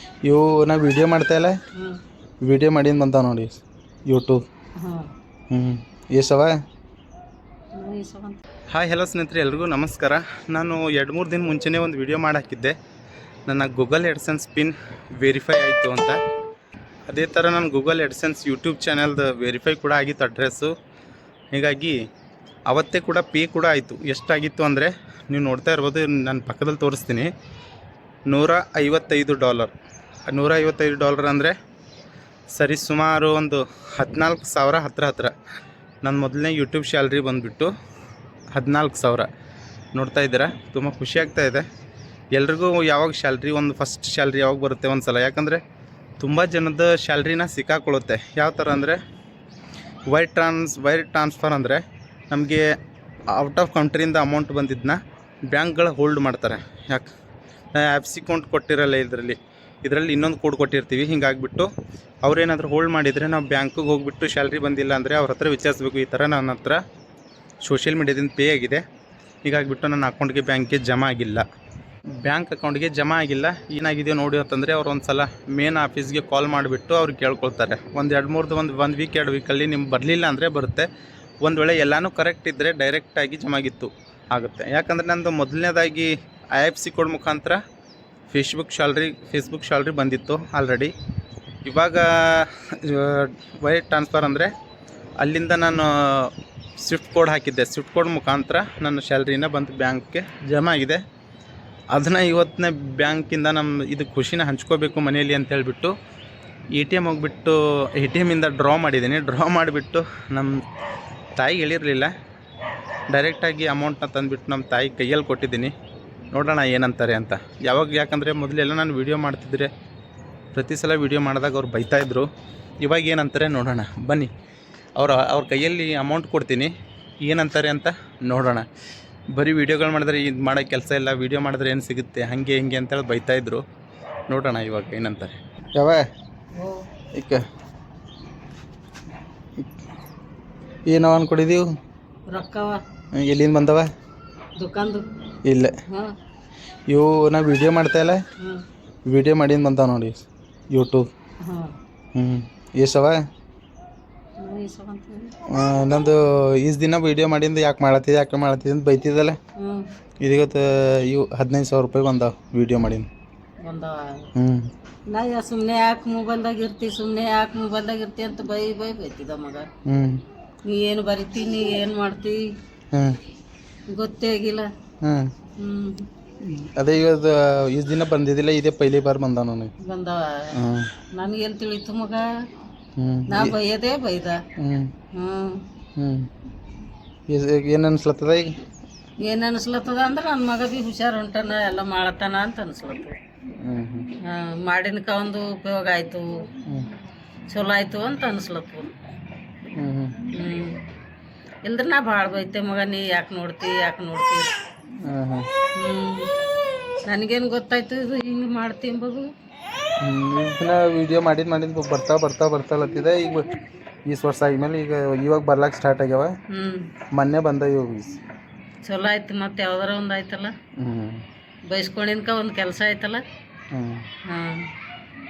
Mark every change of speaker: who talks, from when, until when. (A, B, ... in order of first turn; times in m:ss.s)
0:00.2-0:01.6 A
0:02.4-0:04.4 A
0:04.8-0:05.1 B
0:05.5-0:06.6 A
0:07.8-0:08.4 B
0:08.7-0:12.8 A
0:13.5-0:16.2 A
0:17.1-0:20.7 A
0:21.5-0:22.0 A
0:22.7-0:27.3 A
0:28.3-0:29.7 A
0:30.3-0:31.5 A
0:32.5-0:35.3 A
0:36.0-0:37.7 A
0:38.5-0:39.3 A
0:40.0-0:41.6 A
0:42.3-0:45.6 A
0:46.2-0:49.0 A
0:50.1-0:52.6 A
0:53.3-0:57.1 A
0:57.7-1:01.7 A
1:02.2-1:06.8 A
1:07.6-1:08.8 A
1:09.4-1:11.4 A
1:12.2-1:20.9 A
1:21.4-1:27.6 A
1:28.3-1:30.9 A
1:31.6-1:34.5 A
1:35.2-1:41.0 A
1:41.9-1:45.9 A
1:46.7-1:50.6 A
1:51.4-1:52.1 A
1:53.1-1:55.7 A
1:56.3-1:59.7 A
2:00.5-2:02.3 A
2:02.8-2:04.3 A
2:05.0-2:08.7 A
2:09.3-2:13.6 A
2:14.3-2:16.1 A
2:16.6-2:16.8 B
2:17.2-2:17.4 A
2:20.9-2:21.7 A
2:22.3-2:22.8 B
2:23.1-2:23.9 A
2:24.6-2:25.1 B
2:25.4-2:25.8 A
2:25.9-2:26.1 B
2:26.9-2:28.2 A
2:29.1-2:31.1 A
2:31.4-2:31.7 B
2:32.2-2:33.2 A
2:34.4-2:35.3 B
2:35.5-2:39.4 A
2:39.6-2:39.9 B
2:40.2-2:43.1 A
2:43.6-2:44.3 B
2:44.4-2:44.7 A
2:45.1-2:49.7 B
2:49.9-2:50.2 A
2:50.6-2:52.5 B
2:52.9-2:53.2 A
2:53.9-2:54.7 B
2:55.0-2:55.3 A
2:55.6-2:56.1 B
2:56.4-2:59.7 A
2:59.8-3:00.6 B
3:00.5-3:00.9 A
3:01.1-3:02.3 B
3:03.0-3:03.6 A
3:03.3-3:04.4 B
3:04.6-3:04.9 A
3:05.1-3:05.6 B
3:06.0-3:06.3 A
3:07.3-3:08.6 A
3:09.2-3:13.1 B
3:13.6-3:14.1 A
3:14.2-3:16.5 B
3:17.5-3:18.9 B
3:19.8-3:20.2 A
3:20.3-3:20.8 B
3:21.6-3:24.5 B
3:25.0-3:25.5 A
3:25.8-3:26.3 B
3:27.1-3:29.3 B
3:30.0-3:33.5 A
3:34.1-3:36.3 A
3:36.5-3:36.9 B
3:37.1-3:38.2 A
3:38.8-3:40.5 B
3:40.8-3:41.2 A
3:41.7-3:43.2 B
3:43.7-3:44.0 A
3:44.3-3:44.7 B